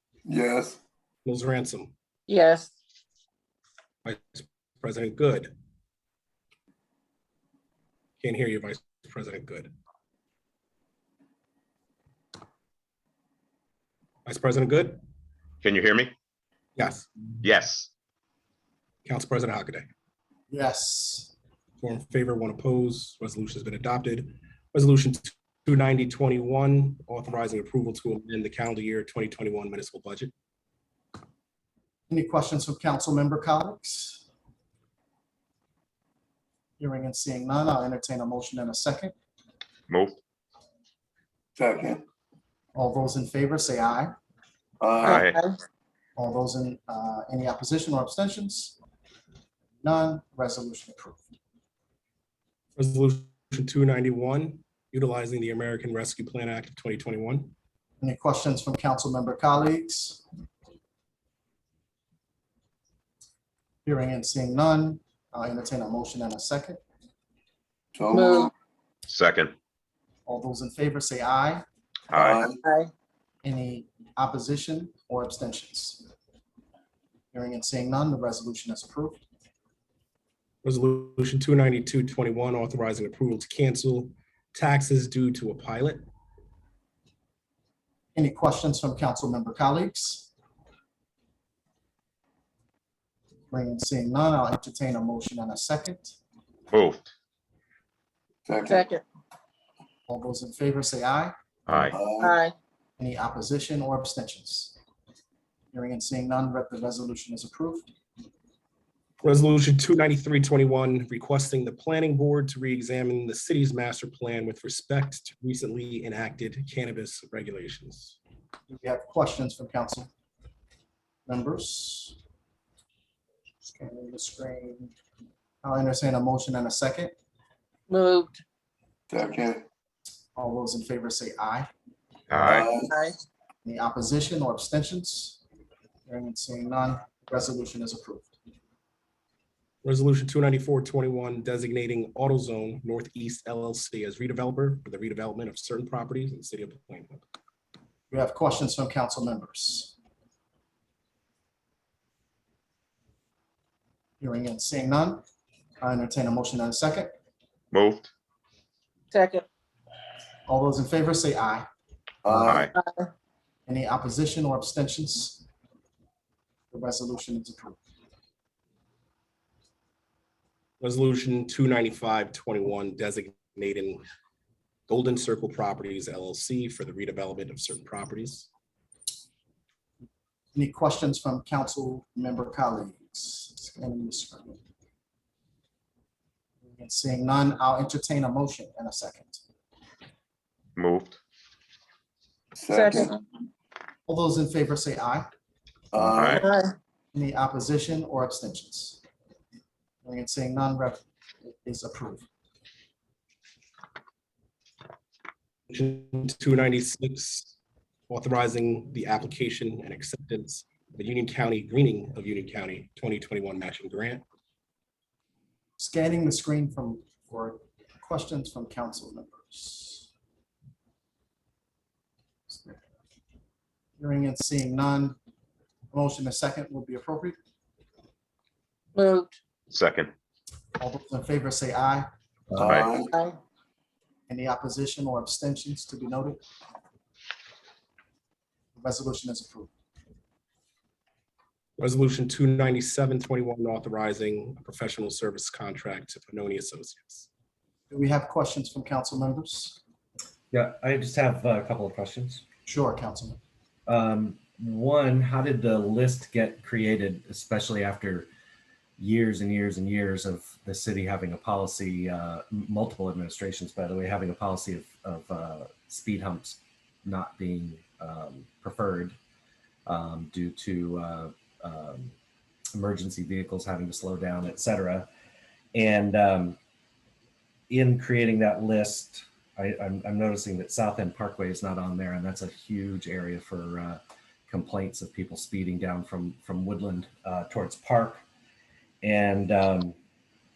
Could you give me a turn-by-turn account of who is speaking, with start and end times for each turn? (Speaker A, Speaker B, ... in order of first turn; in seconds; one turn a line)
Speaker A: 0.2-0.8
Speaker B: 1.2-1.9
Speaker C: 2.3-2.7
Speaker B: 4.0-5.5
Speaker B: 8.2-9.7
Speaker B: 14.2-15.0
Speaker D: 15.6-16.1
Speaker B: 16.8-17.1
Speaker D: 17.4-17.9
Speaker B: 19.0-19.9
Speaker E: 20.5-21.3
Speaker B: 21.8-30.3
Speaker E: 32.1-34.2
Speaker E: 36.8-39.1
Speaker D: 39.9-40.1
Speaker A: 41.6-42.0
Speaker E: 42.7-44.1
Speaker A: 44.8-45.3
Speaker D: 45.0-45.4
Speaker C: 45.0-45.5
Speaker E: 46.1-48.8
Speaker E: 49.8-51.2
Speaker B: 52.8-57.5
Speaker E: 58.0-60.2
Speaker E: 63.8-66.8
Speaker A: 67.9-68.5
Speaker C: 68.1-68.5
Speaker D: 69.1-69.5
Speaker E: 70.2-71.6
Speaker D: 72.1-72.4
Speaker A: 72.1-72.6
Speaker C: 72.6-72.9
Speaker E: 73.4-76.0
Speaker E: 77.3-79.2
Speaker B: 80.6-86.0
Speaker E: 88.1-90.3
Speaker E: 93.5-96.2
Speaker D: 96.7-97.0
Speaker A: 98.5-98.9
Speaker C: 98.6-99.0
Speaker E: 100.1-101.3
Speaker D: 101.7-102.0
Speaker A: 101.9-102.4
Speaker C: 102.2-102.5
Speaker E: 103.0-104.8
Speaker E: 105.7-107.9
Speaker B: 109.2-118.2
Speaker E: 118.7-120.1
Speaker E: 121.2-122.2
Speaker E: 123.6-124.9
Speaker E: 125.6-127.1
Speaker C: 127.9-128.4
Speaker A: 129.1-129.6
Speaker E: 130.3-131.7
Speaker D: 132.3-132.7
Speaker A: 132.4-133.0
Speaker C: 132.8-133.2
Speaker E: 133.6-135.4
Speaker E: 136.1-138.3
Speaker B: 139.8-147.2
Speaker E: 148.1-149.9
Speaker E: 154.2-155.2
Speaker E: 155.8-157.1
Speaker D: 157.7-158.1
Speaker C: 159.1-159.4
Speaker E: 160.5-161.7
Speaker A: 162.2-162.7
Speaker D: 162.4-162.7
Speaker C: 162.6-163.1
Speaker E: 163.7-165.4
Speaker E: 166.7-167.8
Speaker B: 170.8-174.0
Speaker B: 174.9-178.5
Speaker E: 180.5-184.6
Speaker E: 186.7-189.4
Speaker D: 190.8-191.2
Speaker A: 192.6-193.2
Speaker C: 192.7-193.2
Speaker E: 194.1-195.3
Speaker A: 195.9-196.5
Speaker D: 196.1-196.4
Speaker C: 196.3-196.7
Speaker E: 197.1-199.0
Speaker E: 200.0-202.2
Speaker B: 205.7-207.5
Speaker B: 208.1-214.2
Speaker E: 215.8-220.1
Speaker E: 222.5-222.8
Speaker E: 224.0-225.2
Speaker E: 225.9-227.3
Speaker C: 228.9-229.3
Speaker D: 229.7-230.1
Speaker E: 230.8-232.1
Speaker A: 232.6-233.1
Speaker D: 232.6-232.9
Speaker C: 233.1-233.4
Speaker E: 234.3-236.4
Speaker E: 238.8-239.7
Speaker B: 241.8-247.3
Speaker E: 247.9-249.8
Speaker F: 250.5-252.4
Speaker E: 252.7-253.4
Speaker F: 253.9-258.3
Speaker F: 259.0-269.1
Speaker F: 269.9-272.1
Speaker F: 272.7-275.1
Speaker F: 275.7-276.6
Speaker F: 277.7-288.2
Speaker F: 289.0-289.9